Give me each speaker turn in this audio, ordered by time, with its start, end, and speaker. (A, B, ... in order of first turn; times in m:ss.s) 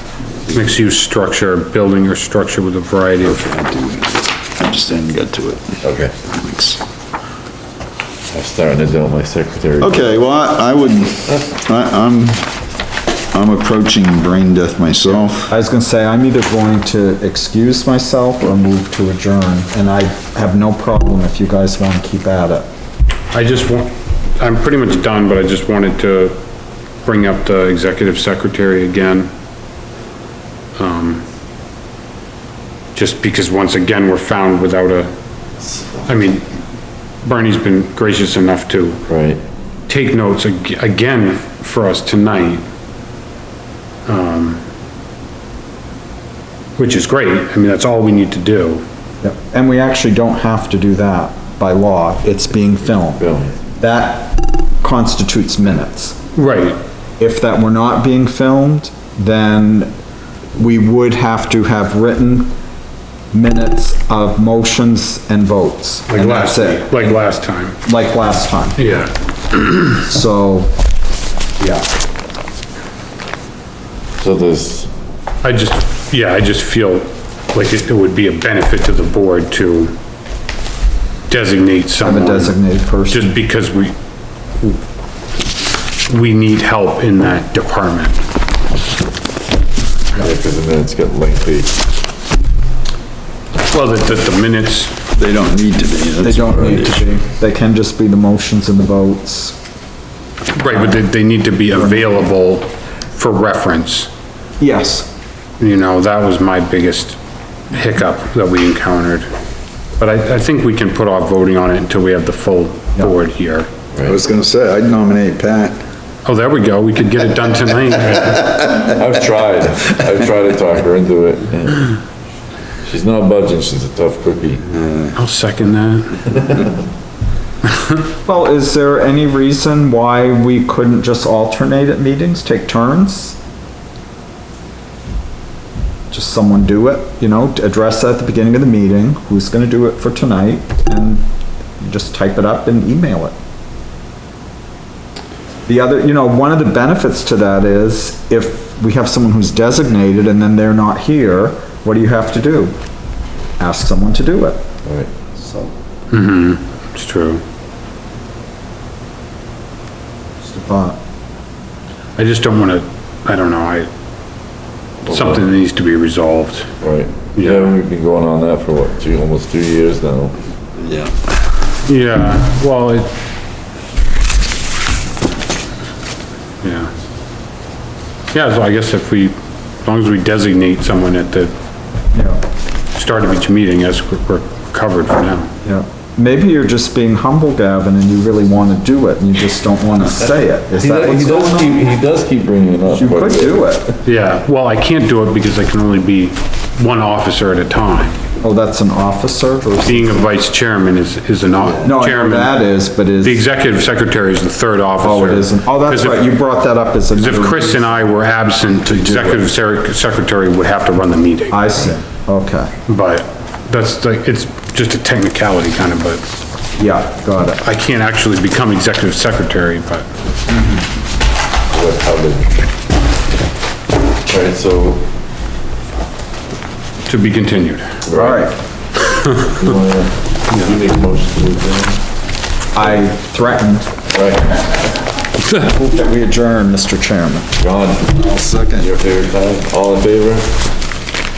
0:00.5-0:03.4 A
0:03.2-0:05.8 B
0:05.8-0:06.1 C
0:06.3-0:06.8 B
0:08.3-0:10.1 C
0:09.8-0:12.4 B
0:13.3-0:15.5 B
0:15.5-0:22.7 D
0:23.3-0:26.4 A
0:27.0-0:29.3 A
0:30.8-0:31.2 A
0:32.9-0:35.1 A
0:36.0-0:36.4 A
0:37.2-0:39.0 A
0:39.1-0:39.4 C
0:39.9-0:42.6 A
0:44.1-0:44.6 A
0:46.8-0:48.8 A
0:49.2-0:53.2 D
0:53.0-0:53.5 C
0:53.8-0:56.2 D
0:56.3-0:56.8 A
0:57.2-0:59.9 D
1:00.5-1:02.5 D
1:03.3-1:07.2 D
1:06.1-1:07.8 A
1:07.8-1:08.8 D
1:08.8-1:10.0 A
1:10.0-1:10.7 D
1:11.6-1:11.9 D
1:14.2-1:14.9 C
1:15.4-1:19.9 A
1:21.3-1:22.5 A
1:22.0-1:23.3 D
1:23.1-1:23.9 A
1:26.0-1:28.2 A
1:30.1-1:31.7 C
1:33.7-1:34.9 A
1:35.1-1:37.0 B
1:36.2-1:39.6 D
1:40.6-1:44.1 A
1:40.6-1:41.0 D
1:41.7-1:42.1 D
1:44.6-1:45.1 D
1:45.6-1:47.2 A
1:47.7-1:49.3 A
1:50.0-1:53.7 A
1:54.0-1:55.8 B
1:56.2-1:58.7 A
1:58.7-2:01.9 C
2:02.8-2:04.6 C
2:04.8-2:05.1 B
2:05.1-2:06.2 A
2:08.2-2:13.4 D
2:16.1-2:21.2 D
2:21.8-2:23.3 D
2:25.7-2:32.7 D
2:33.6-2:34.6 D
2:34.8-2:35.1 C
2:35.4-2:35.7 D
2:36.1-2:37.4 A
2:40.4-2:41.0 D
2:42.2-2:43.9 A
2:45.0-2:46.7 A
2:45.1-2:45.4 C
2:46.8-2:50.3 C
2:47.4-2:47.7 A
2:51.8-2:53.1 A
2:56.6-2:56.9 A
2:58.3-3:01.5 A
3:02.1-3:02.4 D
3:03.0-3:05.5 A
3:05.6-3:11.8 D
3:10.8-3:13.6 C
3:12.9-3:14.0 D
3:14.0-3:18.2 A
3:18.4-3:20.2 D
3:19.8-3:22.5 A
3:21.8-3:23.4 D
3:23.2-3:26.3 A
3:25.0-3:28.0 D
3:27.1-3:31.6 A
3:28.8-3:29.4 D
3:31.5-3:32.7 D
3:32.9-3:36.2 A
3:36.8-3:37.6 D
3:37.6-3:40.0 A
3:40.5-3:40.8 D
3:41.7-3:42.6 C
3:44.3-3:45.0 C
3:47.0-3:48.0 A
3:48.0-3:48.5 C
3:48.1-3:48.5 D
3:49.0-3:49.5 A
3:49.4-3:52.0 C
3:52.7-3:53.9 D
3:54.1-3:54.6 C
3:55.5-3:57.5 D
3:57.6-4:00.5 C
3:58.2-3:58.8 D